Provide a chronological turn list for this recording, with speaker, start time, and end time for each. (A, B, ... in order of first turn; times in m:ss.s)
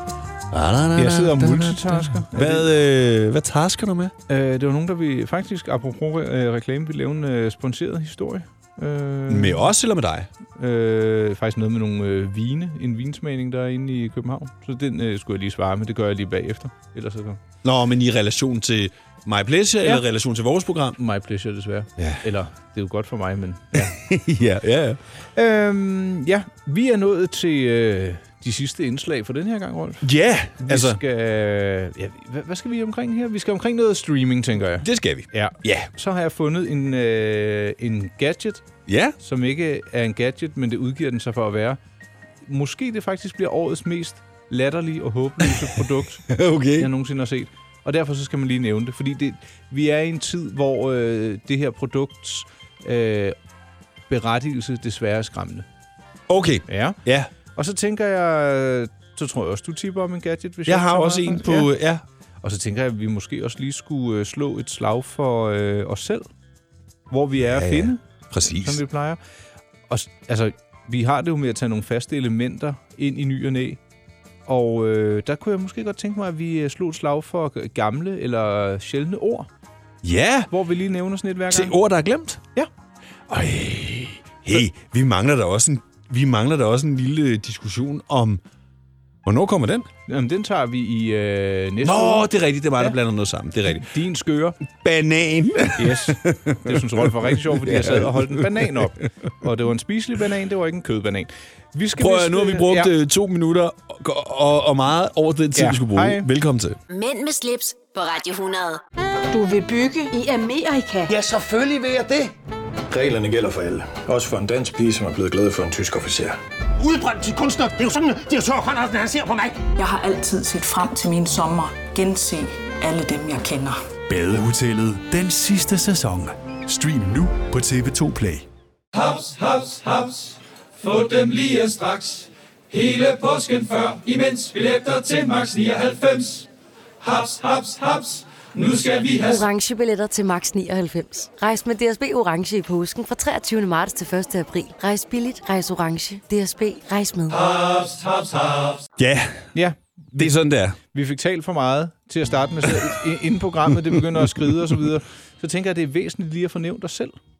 0:00.5-0:04.1 A
0:00.9-0:02.7 B
0:04.3-0:09.7 B
0:09.3-0:10.3 A
0:10.6-0:17.4 B
0:17.6-0:21.0 A
0:21.0-0:24.0 B
0:22.0-0:22.2 A
0:23.7-0:25.0 A
0:25.4-0:30.1 B
0:30.0-0:31.0 A
0:30.6-0:38.6 B
0:34.8-0:35.9 A
0:38.9-0:39.2 A
0:39.2-0:41.8 B
0:42.4-0:53.4 B
0:45.4-0:46.9 A
0:54.1-0:55.7 B
0:56.3-0:57.3 A
0:56.7-0:57.0 B
0:57.5-1:01.7 B
1:00.6-1:02.0 A
1:02.4-1:06.3 B
1:07.1-1:09.2 B
1:07.4-1:08.8 A
1:09.9-1:13.8 B
1:14.5-1:19.5 B
1:20.0-1:20.5 A
1:20.5-1:21.8 B
1:21.5-1:22.4 A
1:23.3-1:28.4 A
1:29.2-1:29.9 A
1:30.1-1:33.0 B
1:31.8-1:33.9 A
1:33.7-1:34.6 B
1:34.7-1:38.8 A
1:35.8-1:42.9 B
1:42.0-1:46.8 A
1:45.6-1:46.2 B
1:46.9-1:48.8 C
1:49.3-1:51.1 D
1:51.1-1:52.3 E
1:52.9-1:56.4 F
1:56.8-1:59.6 E
1:59.8-2:03.8 D
2:04.1-2:08.4 G
2:08.9-2:16.5 H
2:17.0-2:19.4 H
2:19.2-2:27.4 I
2:27.3-2:28.8 H
2:29.0-2:29.5 A
2:29.5-2:30.3 B
2:30.1-2:30.8 A
2:30.9-2:37.1 B